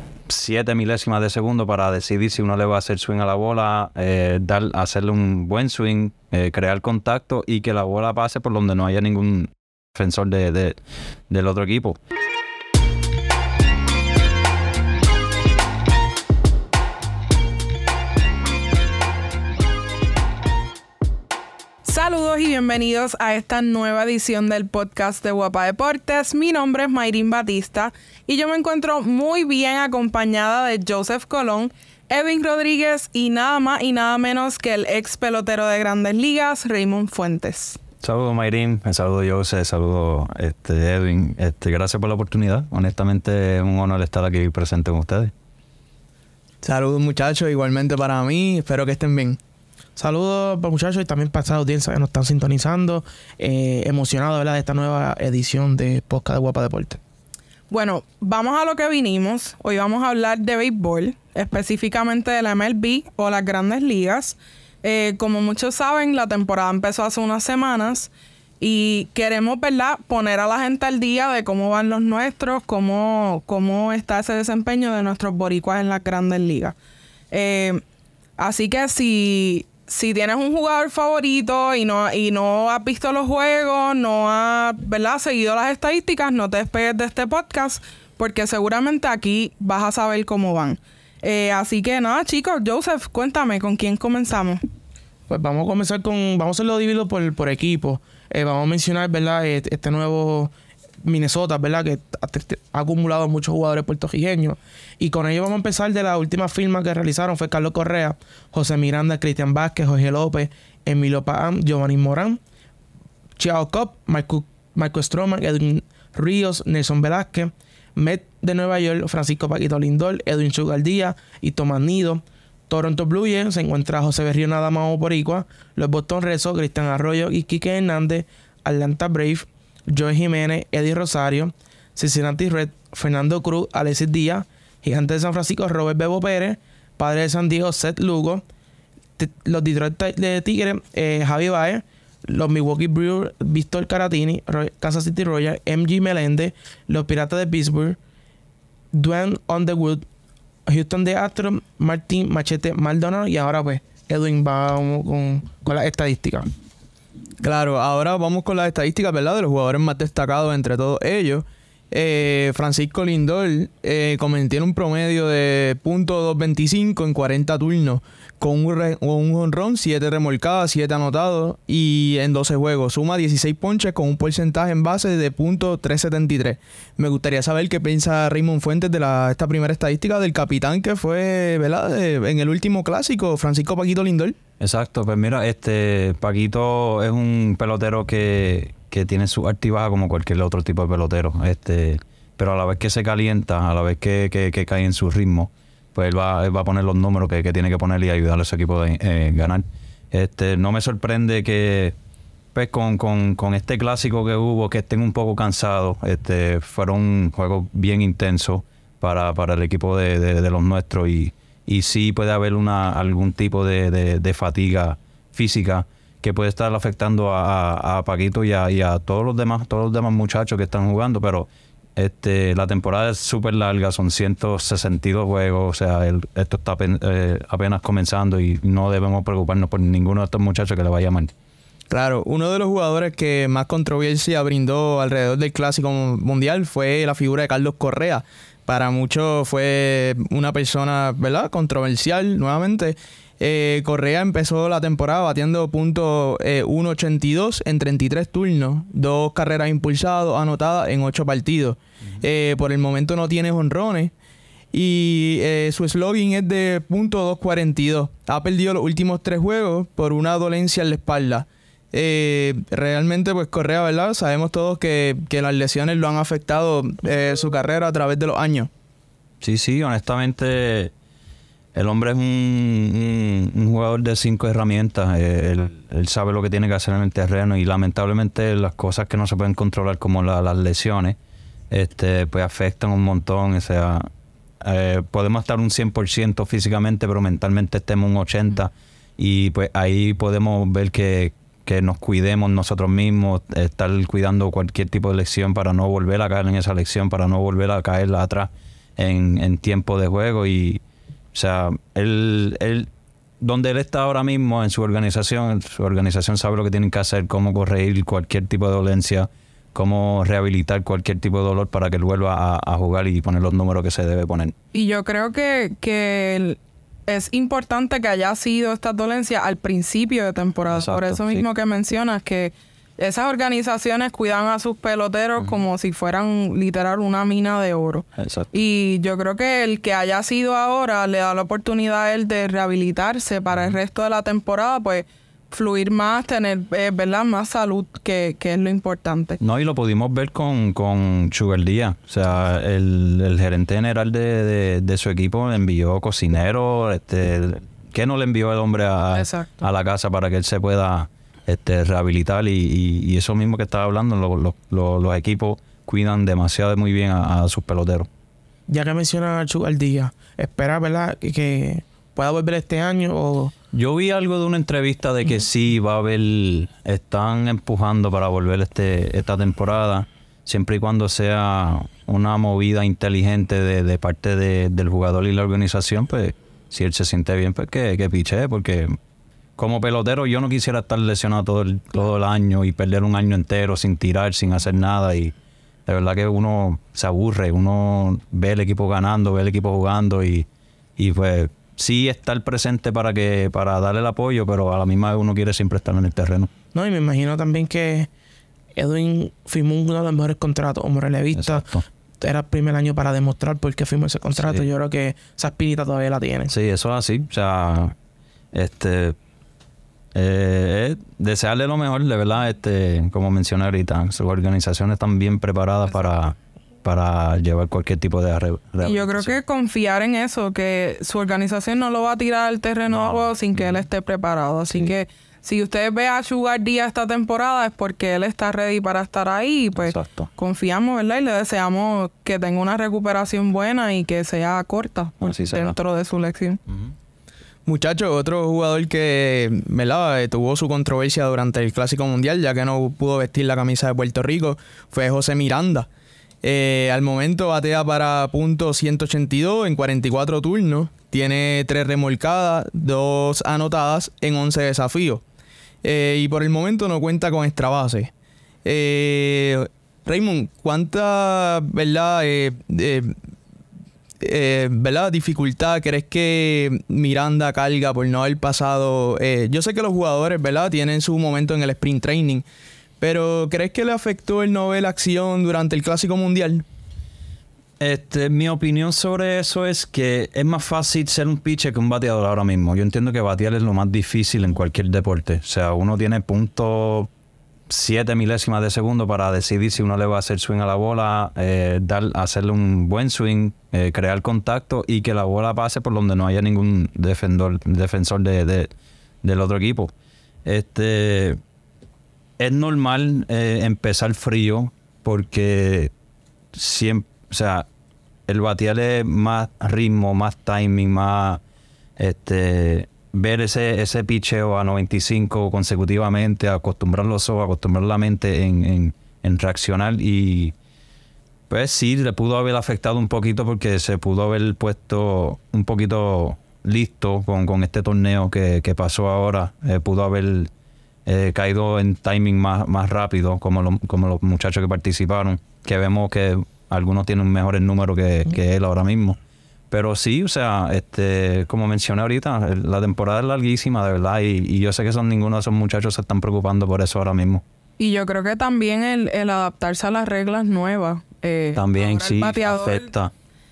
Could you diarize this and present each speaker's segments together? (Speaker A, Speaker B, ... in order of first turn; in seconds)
Speaker A: 0.3-10.8, 11.3-12.0, 38.0-45.3, 184.6-201.9, 202.5-231.3, 269.4-270.9, 271.7-281.2, 281.7-284.1, 284.6-300.8, 301.3-302.9, 303.4-314.5, 320.7-321.4, 328.2-328.5, 333.5-333.8, 339.4-358.1, 363.7-379.0, 379.6-385.3, 385.9-396.5, 401.3-401.8, 404.3-404.6, 406.5-407.9, 408.5-409.1, 410.1-419.3, 422.9-423.8, 429.7-430.3, 435.2-435.7, 436.7-436.9, 477.8-487.1, 487.7-498.7, 499.2-499.9, 500.4-501.4, 502.4-505.9, 506.5-507.7, 508.3-511.4, 512.0-520.5, 521.5-530.5, 531.0-539.2, 539.7-547.4, 551.5-553.1
Speaker B: 21.8-37.8, 57.7-76.7, 77.3-77.8, 78.4-94.6, 314.7-339.4, 349.1-349.6, 418.8-436.6, 547.8-552.9
Speaker C: 46.6-49.4, 157.4-184.4, 231.9-254.1, 254.7-268.7, 437.6-445.9, 446.4-455.2, 455.8-458.1, 458.6-463.1, 464.2-472.4, 473.0-476.6
Speaker D: 50.0-57.0, 95.3-112.4, 113.4-138.4, 139.2-148.0, 148.9-150.0, 150.7-156.5, 358.7-363.5, 396.7-398.1, 398.7-406.5